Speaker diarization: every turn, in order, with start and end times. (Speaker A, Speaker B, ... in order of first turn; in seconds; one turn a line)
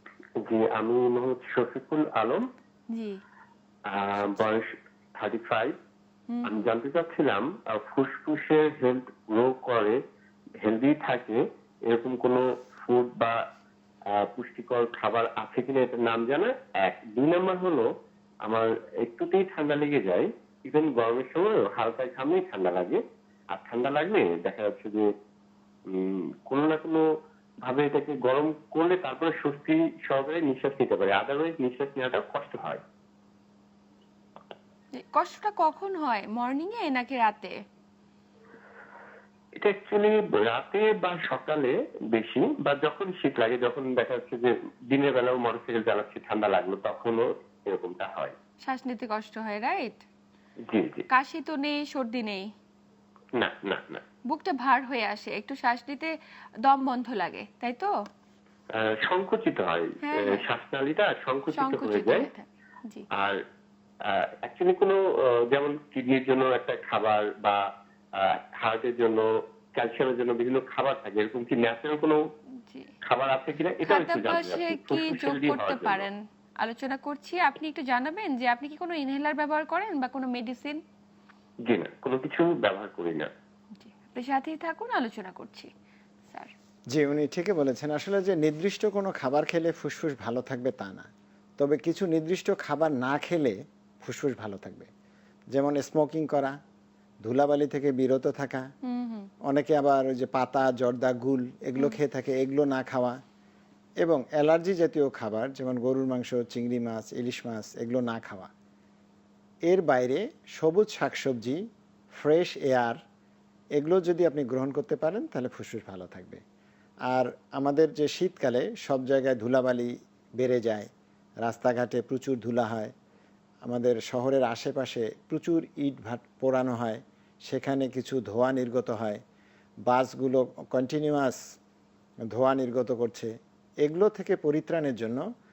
Speaker A: 0.4-2.4
Speaker B: 2.9-3.2
Speaker A: 3.9-4.6
Speaker B: 4.2-4.4
Speaker A: 5.2-5.7
Speaker B: 6.3-6.6
Speaker A: 6.4-10.0
Speaker A: 10.6-13.3
Speaker A: 14.1-17.9
Speaker A: 18.4-23.0
Speaker A: 23.5-25.1
Speaker A: 25.9-27.0
Speaker A: 27.6-32.8
Speaker B: 35.0-37.5
Speaker A: 39.6-48.3
Speaker B: 48.6-50.0
Speaker A: 50.7-51.0
Speaker B: 51.1-52.4
Speaker A: 53.4-54.0
Speaker B: 54.3-56.1
Speaker B: 56.6-57.9
Speaker A: 58.8-62.3
Speaker B: 60.0-60.4
Speaker B: 61.5-63.0
Speaker A: 64.1-65.0
Speaker A: 65.5-67.6
Speaker A: 68.2-69.2
Speaker A: 69.8-72.2
Speaker B: 72.6-72.9
Speaker A: 73.0-76.0
Speaker B: 73.8-80.8
Speaker A: 81.7-83.3
Speaker B: 83.8-85.7
Speaker C: 86.9-94.9
Speaker C: 95.5-96.5
Speaker C: 97.2-98.7
Speaker B: 98.8-99.3
Speaker C: 99.5-103.2
Speaker C: 104.0-108.5
Speaker C: 109.7-111.6
Speaker C: 112.1-113.0
Speaker C: 113.8-116.4
Speaker C: 117.1-120.9
Speaker C: 121.4-122.9
Speaker C: 123.6-129.2
Speaker C: 129.9-131.4
Speaker C: 132.3-133.3
Speaker C: 133.8-135.2